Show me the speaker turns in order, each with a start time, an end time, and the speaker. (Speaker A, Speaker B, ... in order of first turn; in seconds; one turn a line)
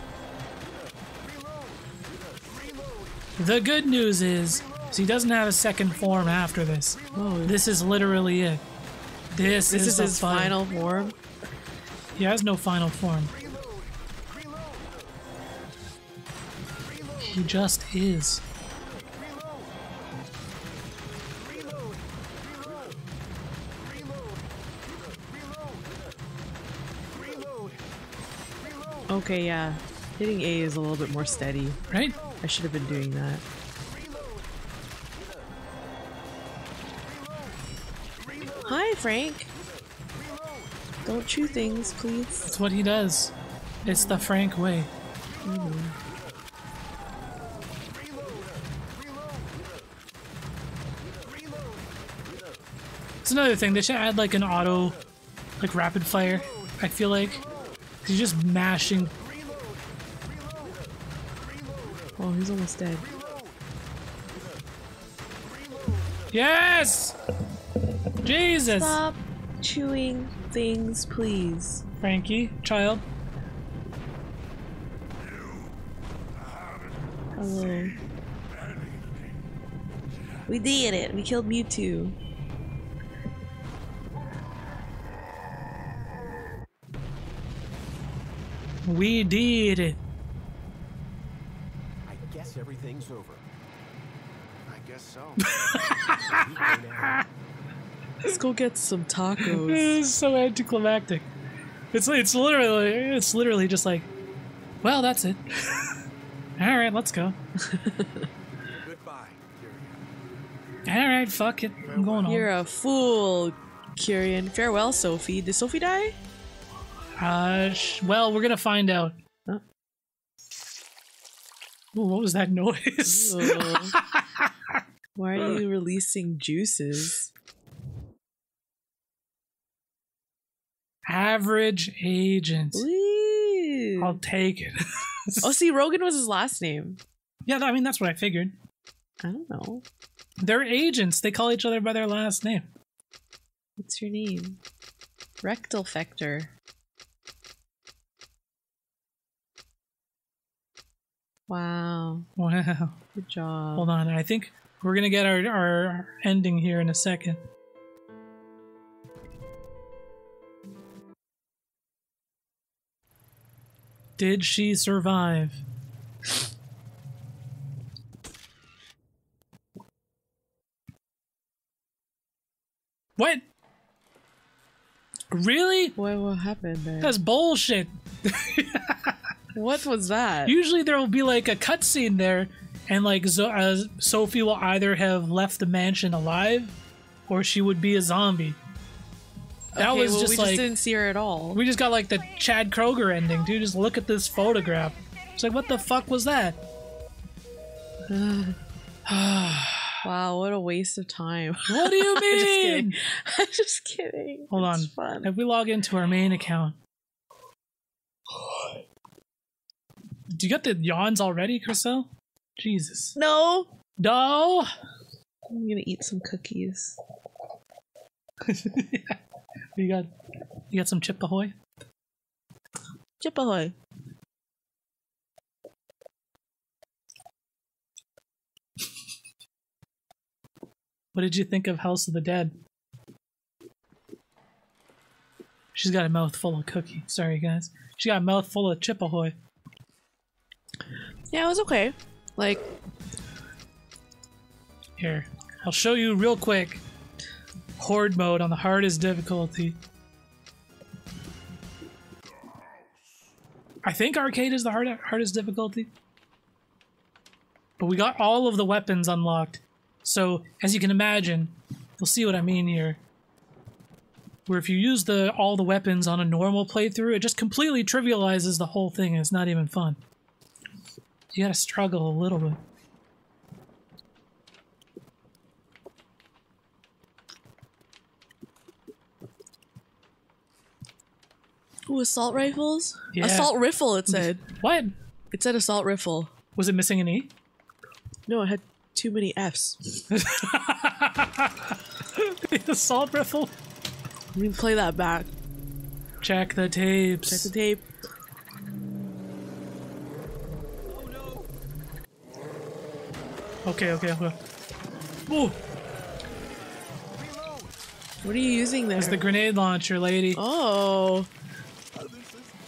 Speaker A: 3.4-8.6
Speaker B: 7.1-7.6
Speaker A: 9.3-10.6
Speaker B: 9.7-11.2
Speaker A: 12.2-13.3
Speaker A: 17.2-18.4
Speaker B: 29.1-31.8
Speaker A: 31.9-32.2
Speaker B: 32.4-33.4
Speaker B: 38.6-39.5
Speaker B: 41.0-42.6
Speaker A: 42.5-44.9
Speaker B: 43.9-44.2
Speaker B: 45.4-45.9
Speaker A: 53.2-55.0
Speaker A: 55.6-57.4
Speaker A: 58.0-59.1
Speaker B: 62.2-63.0
Speaker A: 66.3-67.2
Speaker A: 68.2-69.0
Speaker B: 68.7-71.8
Speaker A: 72.0-73.0
Speaker B: 77.3-78.0
Speaker B: 80.5-82.2
Speaker A: 88.8-90.0
Speaker C: 92.0-93.5
Speaker C: 94.7-97.2
Speaker A: 95.4-96.4
Speaker B: 98.2-100.0
Speaker A: 99.4-101.3
Speaker A: 101.9-104.1
Speaker A: 104.8-105.9
Speaker A: 106.6-107.4
Speaker B: 107.6-108.3
Speaker C: 108.8-110.0
Speaker A: 110.8-112.5
Speaker C: 111.8-112.5
Speaker B: 112.2-116.2
Speaker A: 117.2-119.1
Speaker A: 121.9-124.5
Speaker B: 123.0-123.9
Speaker B: 125.2-127.3
Speaker A: 131.1-132.8
Speaker B: 132.7-134.2
Speaker A: 134.0-135.5
Speaker B: 135.4-137.0
Speaker A: 137.4-138.6
Speaker B: 139.2-139.8
Speaker A: 140.4-142.7
Speaker B: 143.8-144.6
Speaker B: 145.4-146.5
Speaker B: 151.5-152.3
Speaker A: 152.4-153.0
Speaker B: 153.1-153.9
Speaker A: 153.8-157.4
Speaker A: 164.2-165.6
Speaker A: 173.2-173.4
Speaker A: 175.3-175.9
Speaker B: 175.9-177.2
Speaker A: 177.0-179.2
Speaker B: 179.5-180.5
Speaker A: 180.4-186.7
Speaker A: 187.3-188.6
Speaker B: 189.7-191.6
Speaker A: 189.8-190.7
Speaker A: 191.5-196.6
Speaker B: 198.1-198.6
Speaker A: 199.1-200.0
Speaker B: 200.0-205.3
Speaker A: 201.7-203.0
Speaker A: 204.5-206.8
Speaker A: 210.3-213.2
Speaker B: 213.2-213.7
Speaker A: 214.0-214.7
Speaker B: 215.5-217.0
Speaker A: 218.4-219.2
Speaker A: 219.8-220.1
Speaker A: 220.7-221.6
Speaker B: 223.2-223.7
Speaker A: 231.1-232.5
Speaker A: 235.7-239.3
Speaker B: 241.3-242.6
Speaker A: 245.0-246.8
Speaker A: 247.8-249.8
Speaker A: 253.8-255.9
Speaker A: 257.8-263.0
Speaker A: 264.5-270.0
Speaker A: 271.3-272.6
Speaker B: 281.9-284.4
Speaker A: 283.1-284.9
Speaker B: 285.3-286.3
Speaker A: 286.6-287.3
Speaker B: 288.3-290.0
Speaker A: 290.1-293.5
Speaker B: 294.3-295.3
Speaker A: 296.2-297.5
Speaker B: 297.3-297.9
Speaker A: 303.6-304.4
Speaker A: 305.3-305.6
Speaker B: 308.2-309.2
Speaker A: 309.0-310.4
Speaker B: 310.3-311.3
Speaker C: 312.0-312.4